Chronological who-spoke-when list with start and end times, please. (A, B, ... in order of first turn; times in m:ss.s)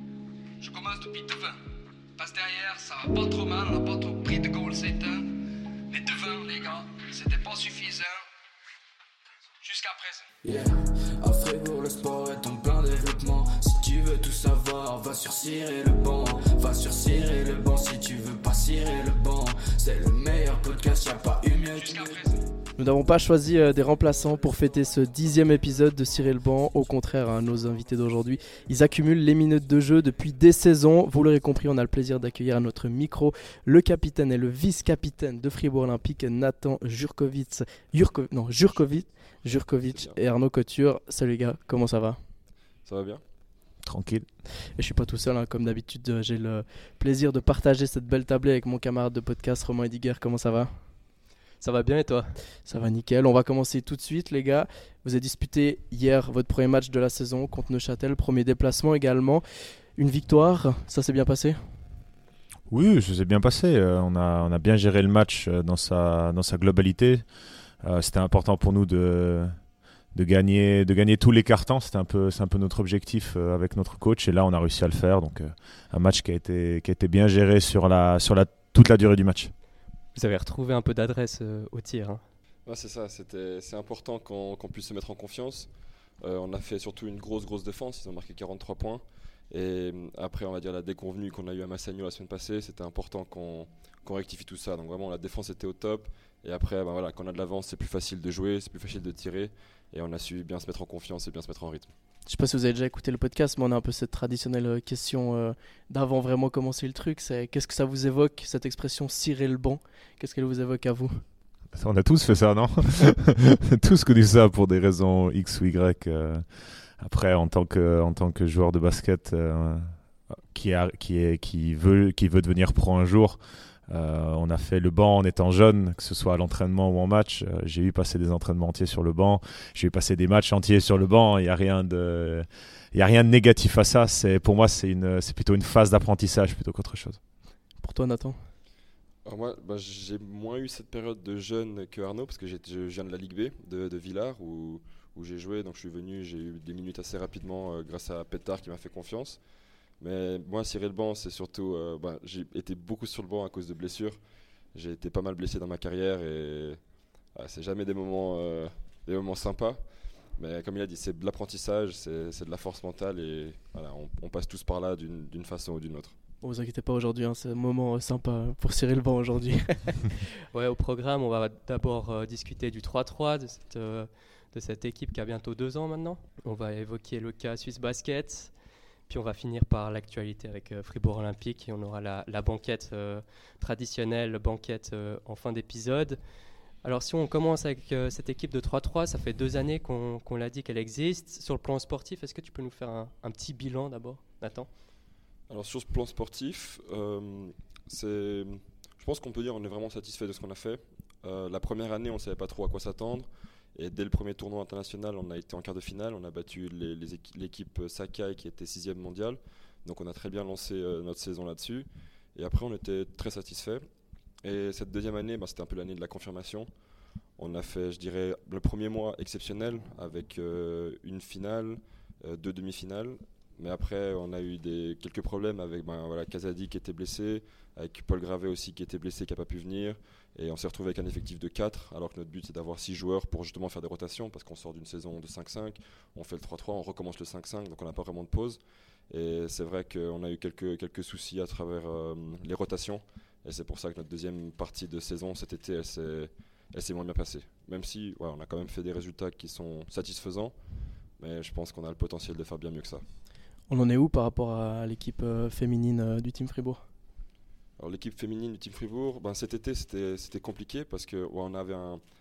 0:00.6-0:01.6 A
0:02.2-0:08.2 A
0:09.6-0:10.3 A
0:10.4-0:22.3 B
0:21.7-0:22.4 A
0:22.8-0:42.2 C
0:39.9-0:40.1 D
0:42.8-0:43.2 D
0:43.8-0:44.3 E
0:44.8-0:50.8 C
0:51.6-0:52.3 F
0:52.6-0:59.4 C
1:00.0-1:01.6 C
1:02.7-1:07.2 E
1:07.8-1:09.6 E
1:10.1-1:19.5 E
1:20.1-1:22.2 F
1:22.6-1:25.7 D
1:26.2-1:41.9 D
1:42.3-1:51.2 C
1:51.7-1:56.4 E
1:57.0-1:59.9 E
2:00.5-2:17.2 E
2:17.8-2:18.4 C
2:19.2-2:29.4 D
2:30.0-2:34.2 D
2:34.7-2:36.8 D
2:37.3-2:39.8 D
2:40.3-2:46.2 D
2:46.4-2:50.1 C
2:50.5-2:58.5 F
2:59.1-3:06.2 F
3:06.8-3:14.7 F
3:15.5-3:33.8 D
3:34.4-3:36.7 D
3:37.4-4:10.5 D
4:11.2-4:13.0 D
4:13.7-4:16.8 C
4:17.8-4:22.0 D